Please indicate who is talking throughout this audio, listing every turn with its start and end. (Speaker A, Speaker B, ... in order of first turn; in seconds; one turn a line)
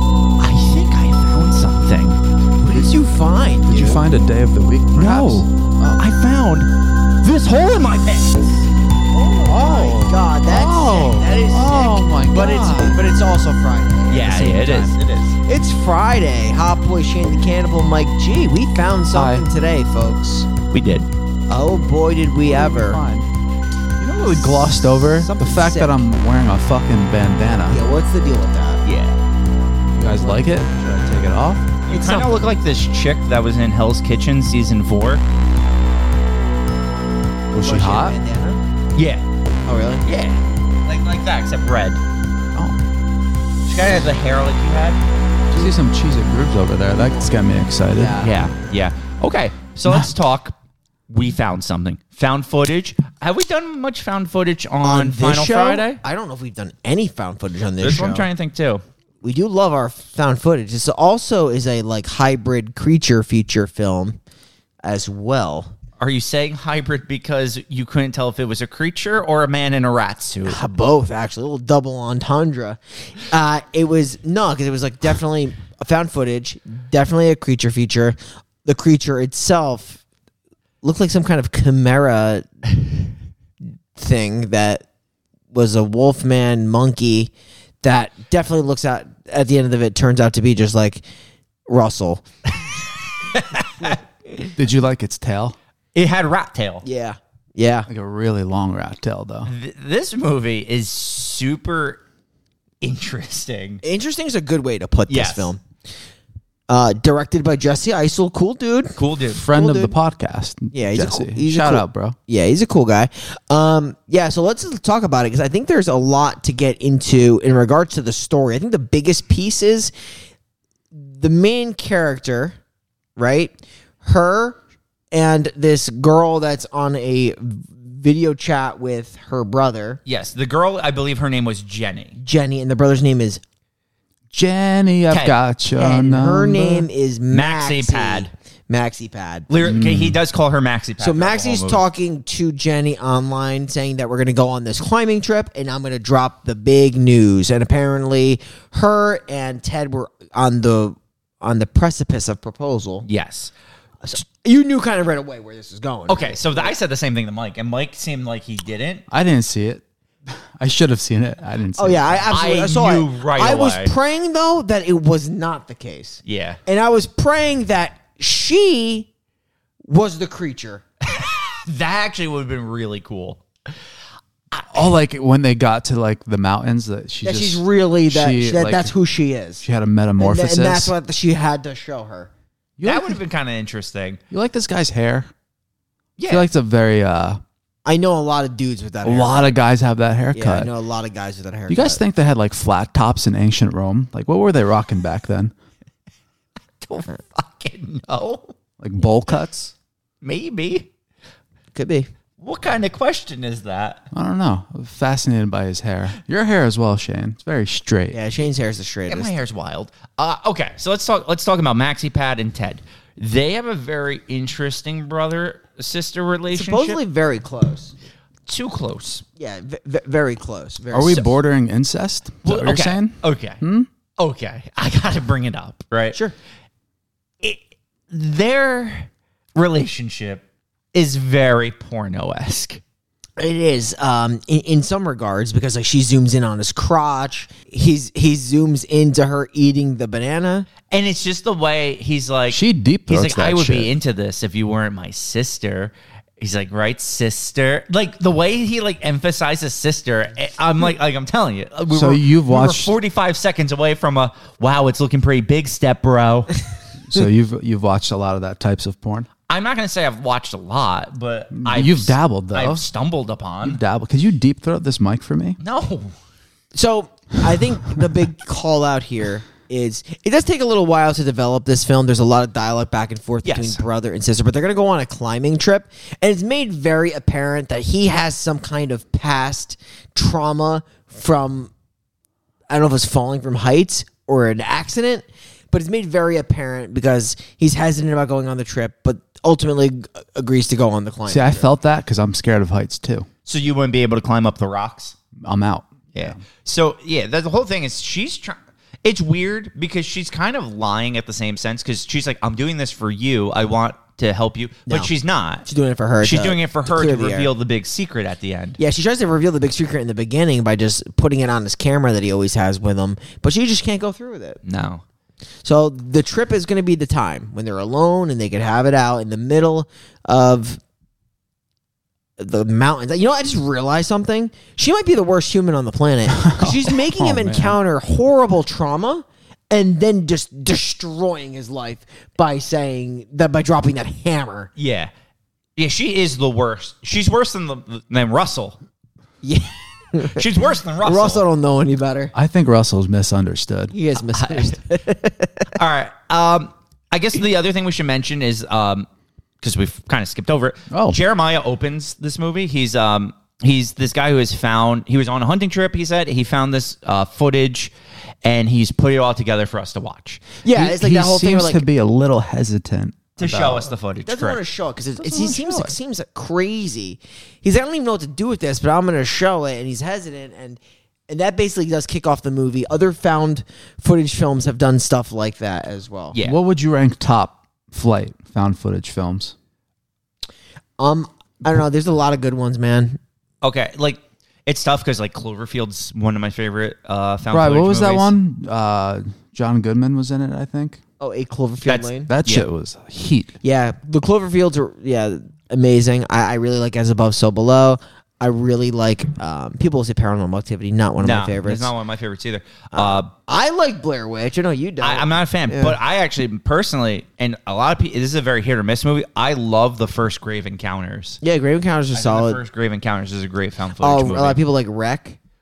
Speaker A: 0.4-2.2
Speaker B: 2.6-4.0
Speaker C: 3.7-6.0
Speaker A: 5.0-6.7
Speaker A: 7.2-8.7
Speaker B: 9.1-20.5
Speaker C: 9.5-13.0
Speaker A: 14.1-15.4
Speaker C: 14.3-14.8
Speaker C: 19.1-19.5
Speaker A: 20.7-21.1
Speaker B: 21.5-23.0
Speaker C: 22.4-23.3
Speaker C: 24.0-27.8
Speaker B: 24.2-26.0
Speaker B: 27.7-28.8
Speaker A: 28.8-29.2
Speaker C: 29.9-31.7
Speaker B: 30.0-30.5
Speaker A: 31.9-35.2
Speaker B: 31.9-32.5
Speaker C: 37.5-38.2
Speaker B: 37.6-38.6
Speaker A: 39.0-39.2
Speaker B: 39.7-40.1
Speaker A: 40.0-42.0
Speaker C: 42.5-42.8
Speaker A: 43.7-45.0
Speaker C: 45.5-48.2
Speaker B: 47.0-47.3
Speaker B: 48.0-48.4
Speaker A: 48.2-50.5
Speaker A: 51.1-56.0
Speaker B: 54.8-58.3
Speaker A: 57.8-58.8
Speaker B: 59.2-64.2
Speaker B: 64.8-65.7
Speaker A: 66.0-70.6
Speaker B: 70.5-80.0
Speaker B: 80.8-82.5
Speaker B: 84.0-84.9
Speaker B: 85.5-87.3
Speaker B: 87.8-91.0
Speaker B: 91.7-92.2
Speaker A: 93.3-94.0
Speaker B: 93.8-94.5
Speaker C: 94.5-95.6
Speaker A: 96.0-96.8
Speaker B: 96.8-97.9
Speaker C: 97.9-99.5
Speaker A: 99.5-102.0
Speaker A: 102.8-103.8
Speaker B: 103.8-105.6
Speaker A: 105.1-105.5
Speaker B: 106.7-110.0
Speaker A: 109.0-109.4
Speaker C: 109.3-112.2
Speaker B: 110.7-119.9
Speaker B: 120.9-122.6
Speaker B: 123.2-124.6
Speaker B: 125.1-130.0
Speaker A: 130.1-132.2
Speaker B: 132.2-133.4
Speaker C: 134.3-136.9
Speaker A: 135.1-135.4
Speaker B: 135.8-139.5
Speaker A: 137.3-138.3
Speaker A: 139.5-141.8
Speaker C: 139.6-140.2
Speaker B: 141.0-153.1
Speaker A: 153.0-153.5
Speaker B: 154.0-156.8
Speaker A: 156.1-159.1
Speaker C: 159.1-162.3
Speaker B: 161.8-169.1
Speaker A: 162.3-163.9
Speaker A: 166.2-166.6
Speaker B: 169.8-170.8
Speaker A: 171.1-173.4
Speaker A: 174.5-174.9
Speaker C: 174.7-178.9
Speaker B: 177.2-179.7
Speaker C: 179.6-180.9
Speaker B: 180.2-182.3
Speaker C: 182.8-183.2
Speaker A: 182.8-184.2
Speaker C: 184.3-185.3
Speaker A: 186.2-186.5
Speaker C: 186.3-187.4
Speaker B: 187.9-189.5
Speaker C: 189.0-190.7
Speaker B: 190.3-192.0
Speaker C: 191.7-195.5
Speaker A: 196.8-198.5
Speaker C: 198.8-199.7
Speaker A: 200.2-200.9
Speaker B: 201.8-202.1
Speaker A: 202.4-204.0
Speaker C: 204.1-208.2
Speaker B: 208.1-209.3
Speaker A: 209.1-217.0
Speaker B: 216.5-217.9
Speaker A: 218.5-219.2
Speaker B: 219.4-221.2
Speaker C: 220.9-223.9
Speaker A: 222.4-223.6
Speaker A: 224.2-226.2
Speaker A: 227.4-232.8
Speaker B: 233.4-240.7
Speaker A: 240.9-256.6
Speaker C: 242.5-243.9
Speaker C: 251.9-252.9
Speaker C: 257.0-259.3
Speaker A: 259.5-263.8
Speaker C: 261.5-262.8
Speaker C: 263.6-265.6
Speaker A: 265.6-266.1
Speaker B: 266.7-281.7
Speaker A: 273.4-273.8
Speaker B: 282.7-291.7
Speaker C: 291.3-293.3
Speaker A: 293.4-295.2
Speaker C: 295.4-296.4
Speaker A: 296.1-305.7
Speaker B: 305.7-307.5
Speaker A: 306.2-308.8
Speaker B: 308.8-314.6
Speaker A: 314.6-315.0
Speaker B: 315.6-320.8
Speaker B: 322.4-334.7
Speaker C: 326.5-327.8
Speaker A: 334.8-335.1
Speaker A: 335.8-338.8
Speaker B: 339.4-340.5
Speaker A: 340.2-341.4
Speaker B: 341.0-342.3
Speaker C: 342.3-343.9
Speaker B: 343.9-345.7
Speaker A: 344.3-344.8
Speaker A: 345.8-349.1
Speaker A: 349.6-357.9
Speaker C: 350.9-351.2
Speaker A: 358.4-360.5
Speaker B: 360.6-361.8
Speaker C: 360.7-363.9
Speaker A: 363.4-364.6
Speaker B: 364.2-376.4
Speaker C: 365.2-365.9
Speaker C: 376.4-379.6
Speaker B: 381.0-383.2
Speaker A: 383.6-388.3
Speaker C: 387.5-391.0
Speaker B: 391.2-392.3
Speaker A: 391.9-392.7
Speaker C: 392.3-393.6
Speaker B: 393.6-401.9
Speaker A: 401.2-403.3
Speaker B: 402.9-406.0
Speaker A: 405.0-411.4
Speaker B: 411.4-412.6
Speaker A: 412.1-414.6
Speaker B: 414.0-415.4